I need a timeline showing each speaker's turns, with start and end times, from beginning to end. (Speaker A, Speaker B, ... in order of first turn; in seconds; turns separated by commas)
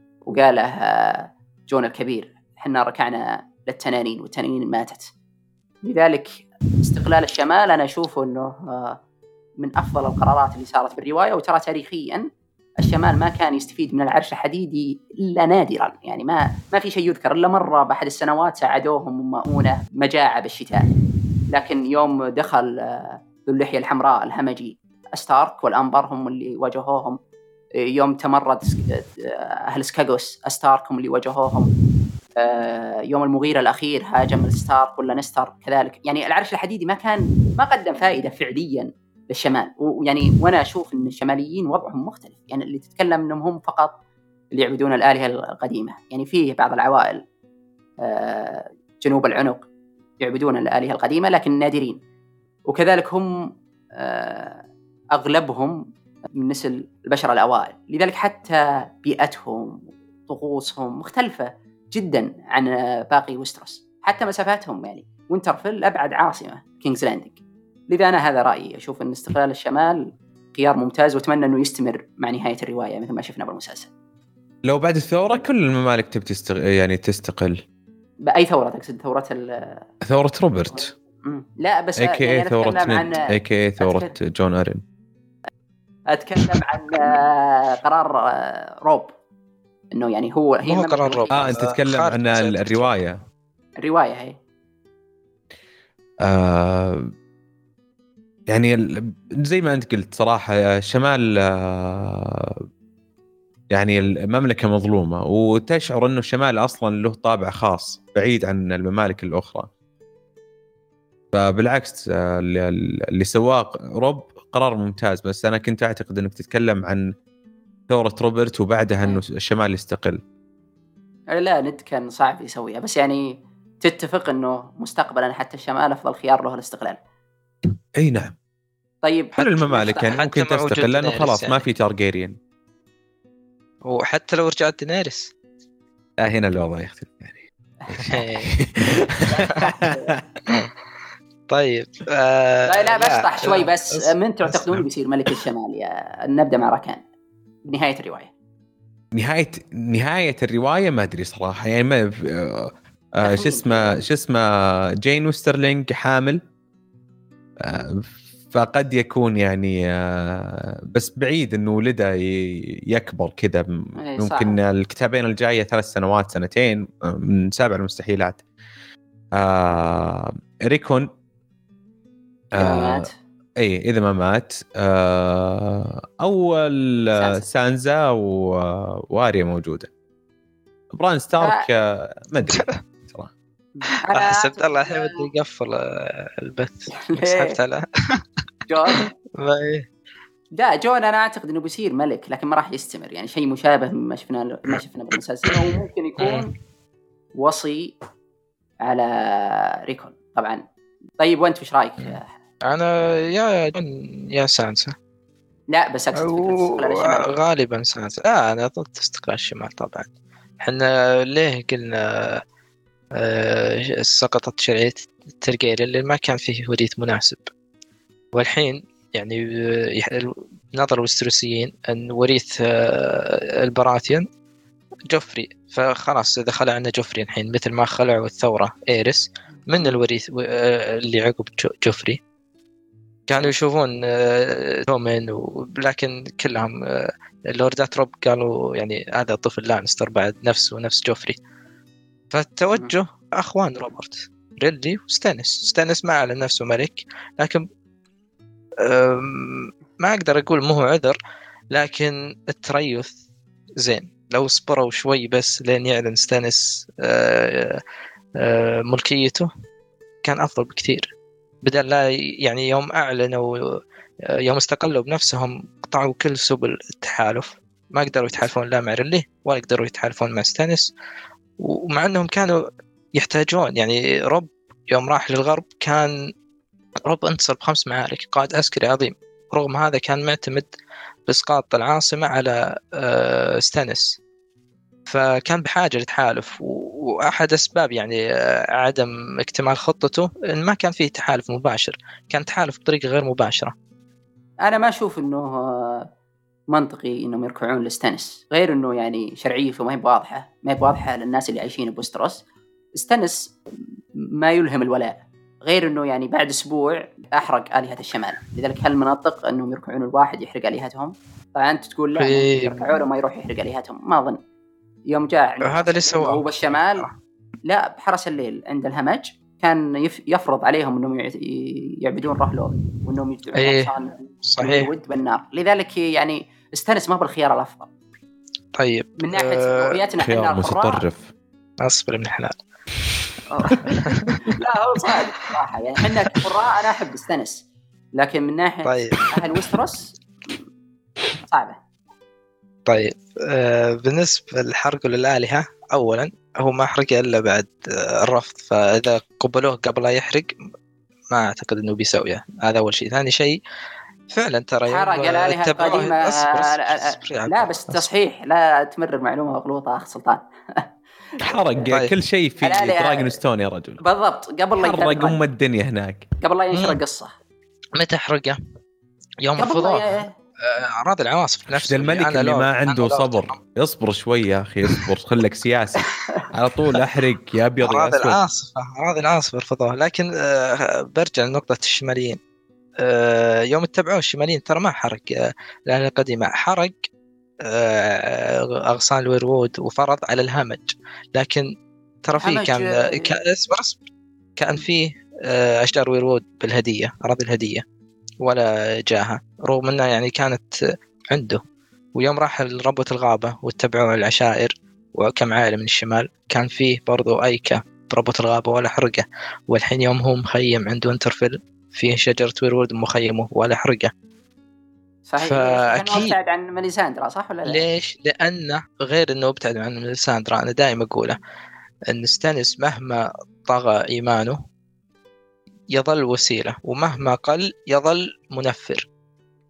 Speaker A: 0.3-5.1, Speaker A: 5.8-9.0, Speaker A: 9.6-12.2, Speaker A: 12.8-20.9, Speaker A: 21.5-27.2, Speaker A: 27.8-31.7, Speaker A: 32.4-44.0, Speaker A: 44.5-47.2, Speaker A: 48.0-49.7, Speaker A: 50.2-52.0, Speaker A: 52.7-53.3, Speaker A: 54.0-55.8, Speaker A: 56.4-67.4, Speaker A: 67.9-70.0, Speaker A: 70.5-73.9, Speaker B: 74.7-77.6, Speaker A: 78.3-79.9, Speaker B: 80.0-80.9, Speaker A: 81.2-84.1, Speaker B: 82.0-84.8, Speaker A: 86.1-89.1, Speaker A: 89.9-91.6, Speaker C: 90.7-92.9, Speaker B: 91.3-93.2, Speaker A: 93.8-94.4, Speaker B: 96.2-97.1, Speaker B: 98.5-102.7, Speaker B: 103.7-109.7, Speaker B: 111.3-117.1, Speaker B: 117.9-120.2, Speaker A: 121.3-127.0, Speaker B: 128.0-128.4, Speaker A: 129.0-130.2, Speaker B: 129.4-132.4, Speaker C: 130.1-131.7, Speaker C: 133.8-135.3, Speaker B: 136.2-138.9, Speaker C: 138.1-138.5, Speaker A: 139.0-140.2, Speaker B: 139.5-140.6, Speaker C: 141.5-145.4, Speaker A: 142.7-147.0, Speaker A: 147.7-148.3, Speaker B: 149.1-156.4, Speaker A: 153.2-154.0, Speaker B: 157.6-168.4, Speaker A: 164.0-164.6, Speaker B: 169.3-171.1, Speaker B: 172.6-179.9, Speaker A: 172.6-173.1, Speaker A: 177.1-177.5, Speaker B: 180.9-183.3, Speaker A: 181.4-181.7, Speaker A: 183.8-185.3, Speaker C: 184.1-188.2, Speaker A: 187.0-187.6, Speaker A: 188.7-189.1, Speaker C: 188.9-189.9, Speaker A: 190.6-196.5, Speaker C: 195.4-196.5, Speaker A: 197.4-197.9, Speaker A: 198.8-200.6, Speaker A: 201.2-202.3, Speaker C: 202.0-205.0, Speaker A: 205.7-207.4, Speaker C: 206.2-210.1, Speaker C: 210.6-212.4, Speaker C: 213.2-217.5, Speaker C: 218.3-224.3, Speaker C: 225.1-232.2, Speaker C: 233.3-241.4, Speaker C: 242.3-247.7, Speaker C: 248.8-251.2, Speaker C: 251.7-253.1, Speaker C: 253.8-257.8, Speaker C: 258.4-259.5, Speaker C: 260.2-263.8, Speaker C: 264.3-270.9, Speaker C: 271.6-276.1, Speaker C: 277.1-280.7, Speaker C: 281.3-284.2, Speaker C: 285.1-288.2, Speaker C: 288.7-293.8, Speaker A: 294.6-296.1, Speaker A: 296.7-302.4, Speaker A: 303.0-303.5, Speaker A: 304.4-314.4, Speaker C: 312.2-313.0, Speaker A: 315.1-317.1, Speaker C: 315.6-317.1, Speaker A: 317.7-327.9, Speaker C: 323.6-324.9, Speaker C: 328.8-330.1, Speaker A: 329.2-331.0, Speaker B: 330.2-331.3, Speaker C: 331.8-332.6, Speaker A: 333.5-337.6, Speaker C: 333.9-334.5, Speaker C: 336.2-336.5, Speaker A: 338.2-340.6, Speaker C: 338.9-339.6, Speaker A: 341.4-341.8, Speaker C: 342.9-350.5, Speaker C: 351.3-353.6, Speaker C: 354.3-358.1, Speaker A: 354.9-360.8, Speaker A: 361.4-361.9, Speaker B: 361.4-364.0, Speaker A: 362.6-363.4, Speaker A: 364.0-365.4, Speaker B: 364.8-366.3, Speaker A: 366.4-367.4, Speaker C: 366.7-367.0, Speaker C: 368.0-368.6, Speaker C: 369.4-373.6, Speaker A: 369.6-370.3, Speaker B: 371.7-378.4, Speaker C: 377.8-382.4, Speaker C: 383.0-387.0, Speaker C: 387.6-391.7, Speaker C: 392.2-394.0, Speaker A: 392.4-393.3, Speaker C: 394.6-397.9, Speaker C: 398.4-400.8, Speaker C: 401.3-401.6, Speaker C: 402.1-414.1, Speaker A: 415.3-417.9, Speaker C: 415.4-416.4, Speaker C: 417.7-421.4, Speaker C: 422.1-424.6, Speaker C: 425.9-429.1